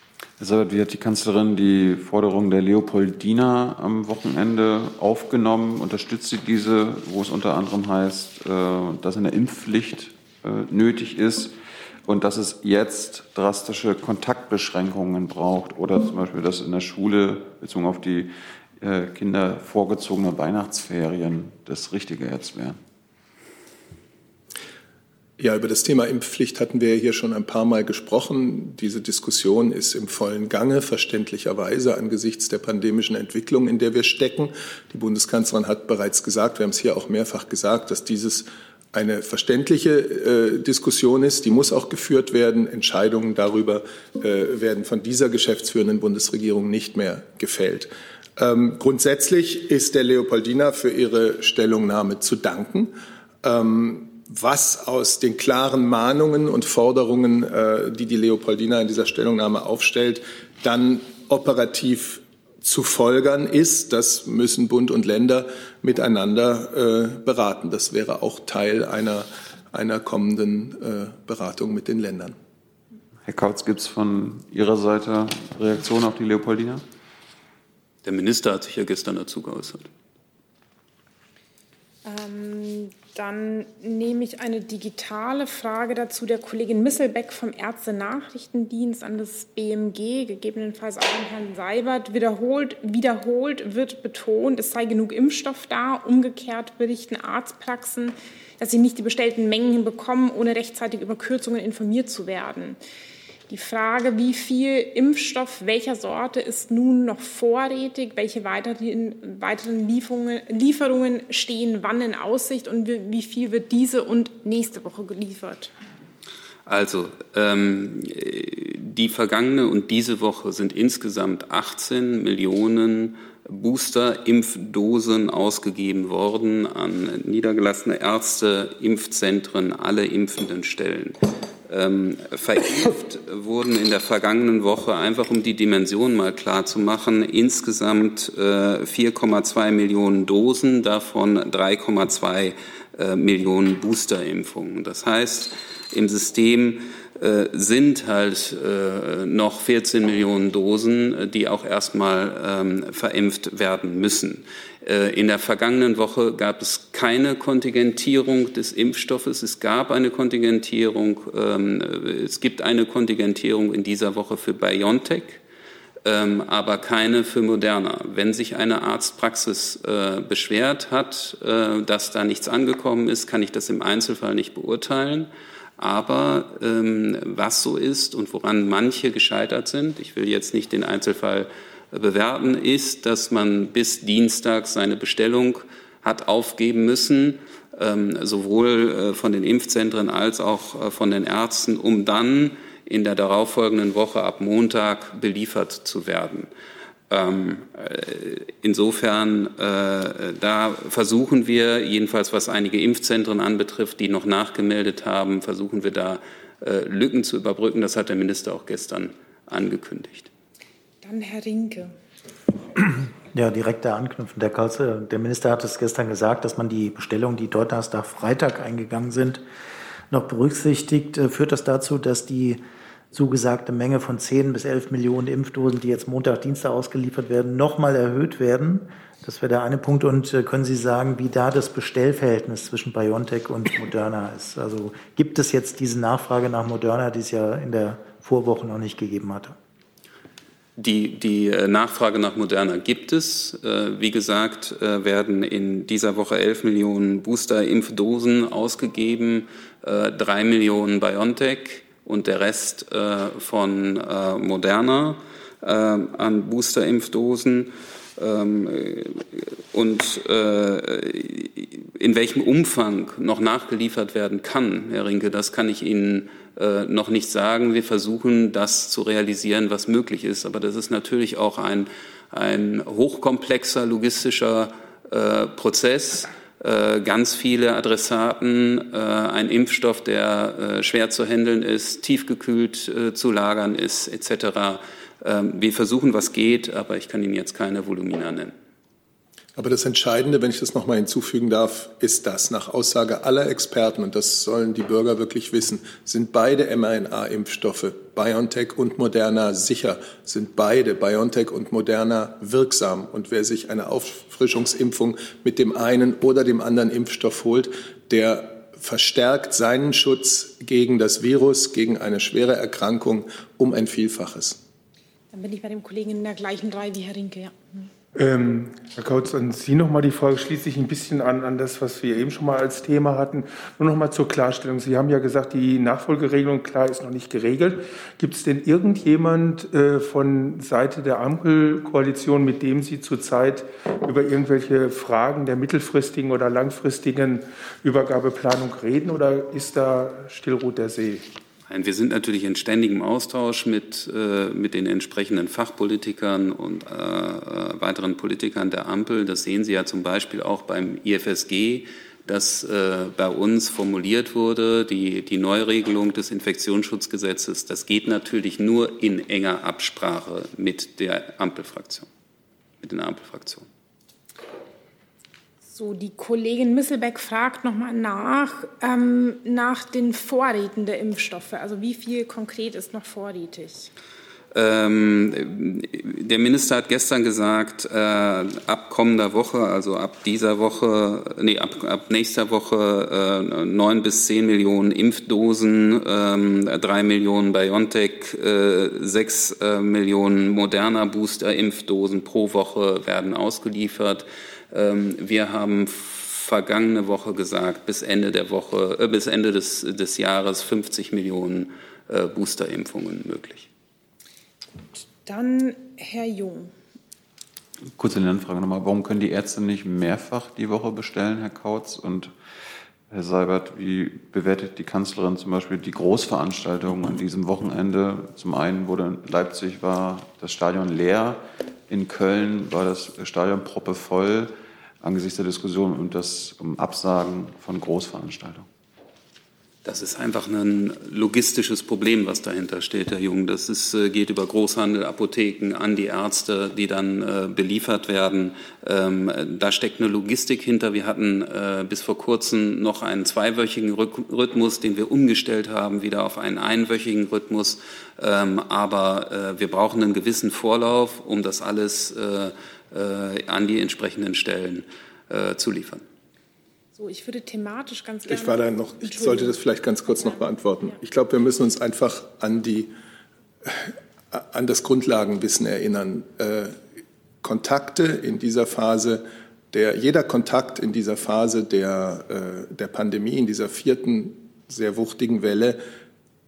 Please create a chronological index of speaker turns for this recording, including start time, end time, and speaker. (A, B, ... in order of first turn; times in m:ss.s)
0:00.4-0:22.8 A
0:25.4-1:12.4 B
1:13.2-1:16.8 A
1:18.0-1:19.9 C
1:22.0-1:42.8 D
1:43.5-1:55.7 D
1:56.6-2:45.4 C
2:46.0-3:16.5 C
3:17.1-3:30.3 C
3:31.0-3:31.9 D
3:33.3-3:39.4 E
3:40.1-3:59.6 E
4:00.8-4:48.5 C
4:49.6-5:14.6 B
5:15.3-5:17.9 D
5:18.1-5:41.3 F
5:41.7-6:02.1 C
6:02.8-6:03.7 C
6:05.7-6:13.9 D
6:14.5-6:43.7 C
6:45.0-6:46.7 D
6:48.0-6:52.3 A
6:53.1-7:08.7 A
7:09.8-7:36.0 C
7:36.9-7:40.4 D
7:38.3-7:42.9 B
7:43.6-7:46.8 B
7:47.4-7:55.8 B